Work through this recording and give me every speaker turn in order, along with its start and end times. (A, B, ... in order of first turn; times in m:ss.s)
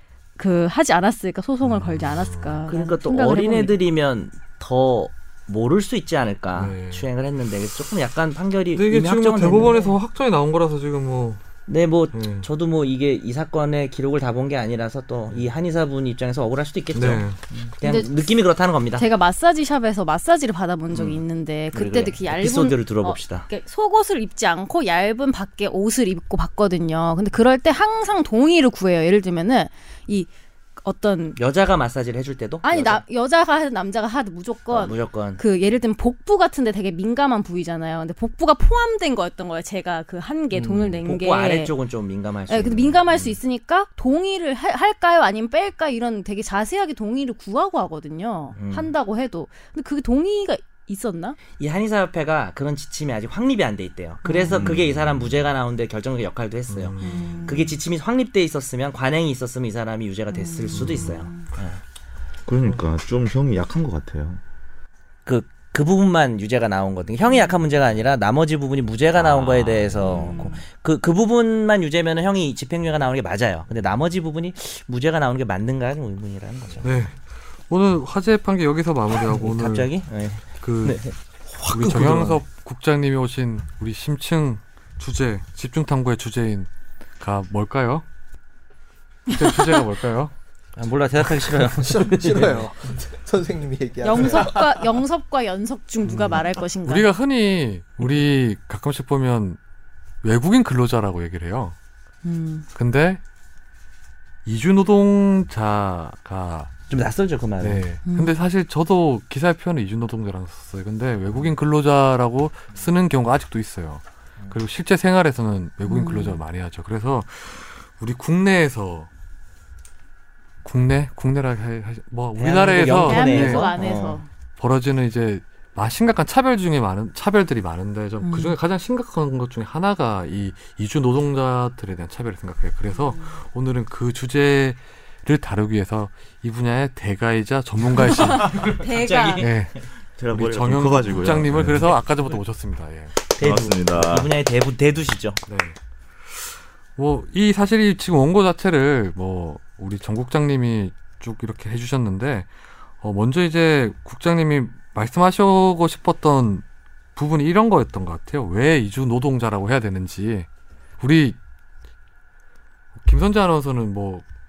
0:00.4-0:03.8 A
0:01.6-0:02.7 B
0:02.7-0:09.9 C
0:06.5-0:07.1 B
0:08.7-0:11.4 B
0:11.7-0:19.1 C
0:12.1-0:12.5 B
0:16.9-0:17.4 B
0:17.8-0:18.1 A
0:19.0-0:31.4 A
0:20.9-0:23.4 C
0:31.4-0:33.0 C
0:32.6-0:41.7 A
0:34.7-0:35.4 C
0:40.5-0:41.0 D
0:41.0-0:43.4 C
0:42.5-0:51.4 A
0:48.5-0:48.9 C
0:51.6-1:01.8 C
0:54.2-0:54.7 A
0:54.5-0:55.3 E
0:56.7-0:57.5 B
0:57.0-0:57.8 A
1:00.3-1:01.5 A
1:00.7-1:01.2 B
1:02.5-1:04.4 E
1:05.2-1:16.9 C
1:09.2-1:10.3 B
1:10.0-1:10.6 A
1:16.8-1:17.2 B
1:17.7-1:19.9 B
1:19.3-1:21.1 C
1:20.6-1:21.0 B
1:21.6-1:22.4 D
1:21.7-1:26.7 B
1:27.2-1:28.0 B
1:29.3-1:29.8 A
1:29.3-1:30.3 B
1:30.8-1:32.7 C
1:31.7-1:34.8 D
1:34.0-1:37.0 A
1:36.0-1:39.6 B
1:40.2-1:41.7 B
1:42.2-1:42.6 A
1:42.7-1:43.2 B
1:44.4-1:46.7 B
1:46.9-1:47.8 C
1:47.6-1:59.1 B
1:48.0-1:48.3 A
1:55.9-1:56.4 A
2:00.6-2:03.8 B
2:02.4-2:04.2 C
2:03.0-2:04.3 A
2:04.6-2:18.7 B
2:08.2-2:08.5 A
2:12.9-2:13.3 A
2:18.1-2:19.5 A
2:18.5-2:19.6 C
2:19.4-2:19.8 B
2:20.2-2:21.9 E
2:20.3-2:23.2 B
2:23.4-2:25.4 C
2:23.4-2:24.3 E
2:25.5-2:32.5 B
2:33.0-2:36.6 B
2:37.1-2:40.5 B
2:41.0-2:41.4 B
2:43.0-2:44.2 B